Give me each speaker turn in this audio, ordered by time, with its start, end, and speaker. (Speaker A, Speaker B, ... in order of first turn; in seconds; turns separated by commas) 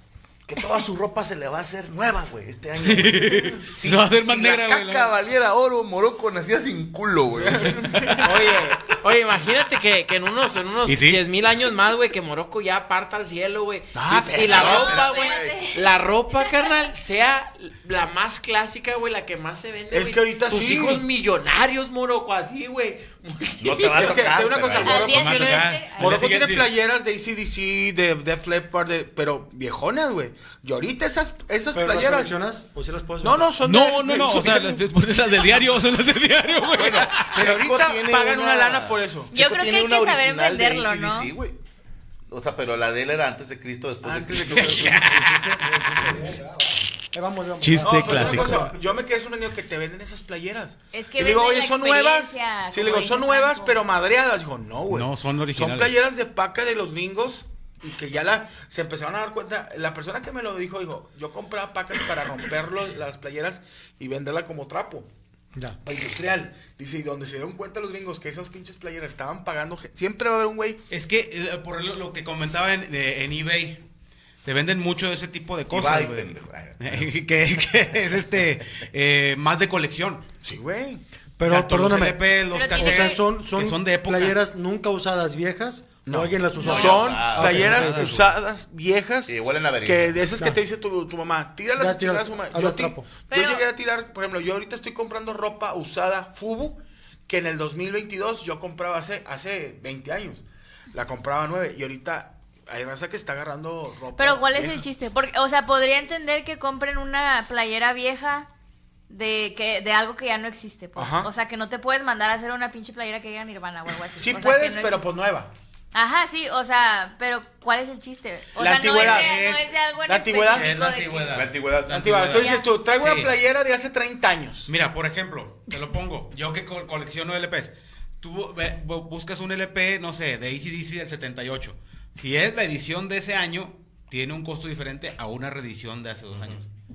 Speaker A: 0.5-8.2, Speaker B: 2.8-5.1, Speaker C: 7.3-8.5, Speaker D: 8.2-24.3, Speaker B: 10.8-11.2, Speaker C: 13.9-14.8, Speaker A: 14.5-15.6, Speaker E: 14.5-15.8, Speaker C: 19.9-21.0, Speaker A: 23.6-25.5, Speaker C: 23.9-32.4, Speaker E: 24.7-26.3, Speaker B: 25.0-26.7, Speaker F: 31.7-33.5, Speaker C: 33.2-34.9, Speaker B: 33.6-37.4, Speaker A: 36.7-41.6, Speaker C: 37.2-39.3, Speaker E: 39.3-41.3, Speaker A: 42.3-44.9, Speaker C: 44.0-45.1, Speaker B: 44.5-46.3, Speaker F: 44.8-48.8, Speaker B: 47.6-48.7, Speaker C: 47.8-65.1, Speaker E: 50.9-53.9, Speaker B: 54.9-56.0, Speaker C: 65.8-70.8, Speaker B: 70.9-73.8, Speaker B: 74.5-80.2, Speaker A: 75.7-77.1, Speaker C: 80.4-81.0, Speaker F: 81.4-88.2, Speaker B: 81.5-84.4, Speaker E: 82.5-83.2, Speaker C: 86.0-104.8, Speaker E: 86.5-86.9, Speaker A: 86.6-88.3, Speaker A: 89.3-90.2, Speaker F: 91.8-93.1, Speaker E: 93.3-93.7, Speaker E: 104.2-108.5, Speaker E: 109.1-115.1, Speaker C: 111.0-111.3, Speaker C: 114.2-115.5, Speaker E: 115.9-121.5, Speaker C: 118.6-120.9, Speaker B: 119.0-119.3, Speaker B: 120.5-123.4, Speaker A: 121.3-122.3, Speaker C: 121.9-124.7, Speaker E: 122.3-122.8, Speaker B: 124.7-136.7, Speaker A: 136.3-136.6